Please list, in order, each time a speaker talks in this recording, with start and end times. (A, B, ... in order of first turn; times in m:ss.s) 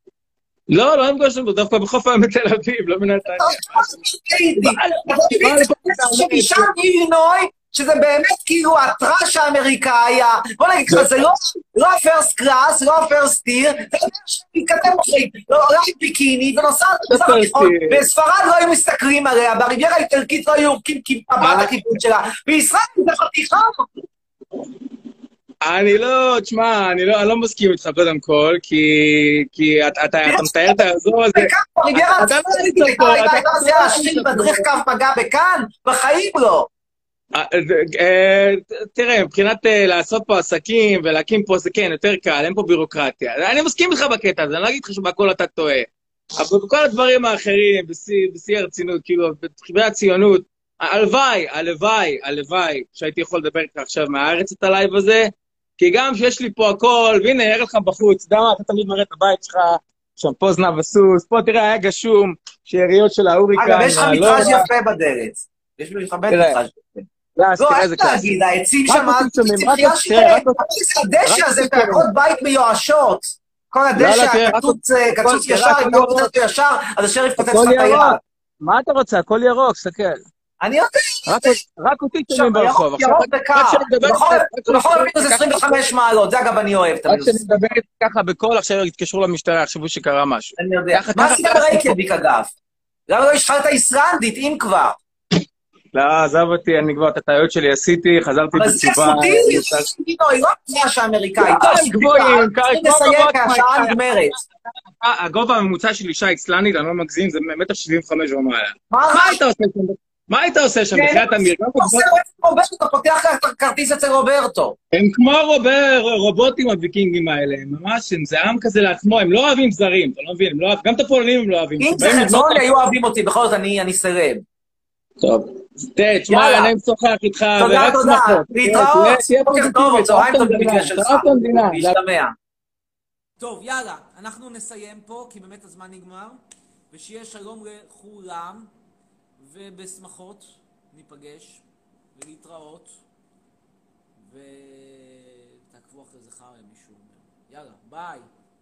0:00.7-0:03.8 A
0:03.3-0:23.9 B
0:04.6-0:06.7 A
0:17.1-0:18.0 A
0:21.4-0:22.0 A
0:25.6-0:34.7 A
0:30.3-0:30.8 B
0:31.3-0:36.7 B
0:37.3-1:04.7 A
1:03.6-1:07.1 B
1:06.3-1:06.6 A
1:07.4-1:10.6 A
1:07.6-1:18.2 B
1:11.2-1:12.1 A
1:14.0-1:16.3 A
1:17.4-1:20.2 A
1:20.6-1:21.6 B
1:21.3-1:25.8 A
1:22.3-1:27.4 B
1:27.1-1:32.0 A
1:30.6-1:32.5 B
1:33.1-1:35.0 B
1:35.9-1:39.9 A
1:38.6-1:44.4 B
1:41.4-1:44.0 A
1:45.0-1:52.1 A
1:48.9-1:49.4 B
1:50.9-1:54.8 B
1:54.9-2:02.6 A
2:01.8-2:04.4 B
2:05.2-2:12.0 A
2:06.3-2:06.7 B
2:07.6-2:12.3 B
2:13.4-2:16.4 C
2:16.9-2:18.7 C
2:19.4-2:23.0 C
2:24.2-2:28.3 C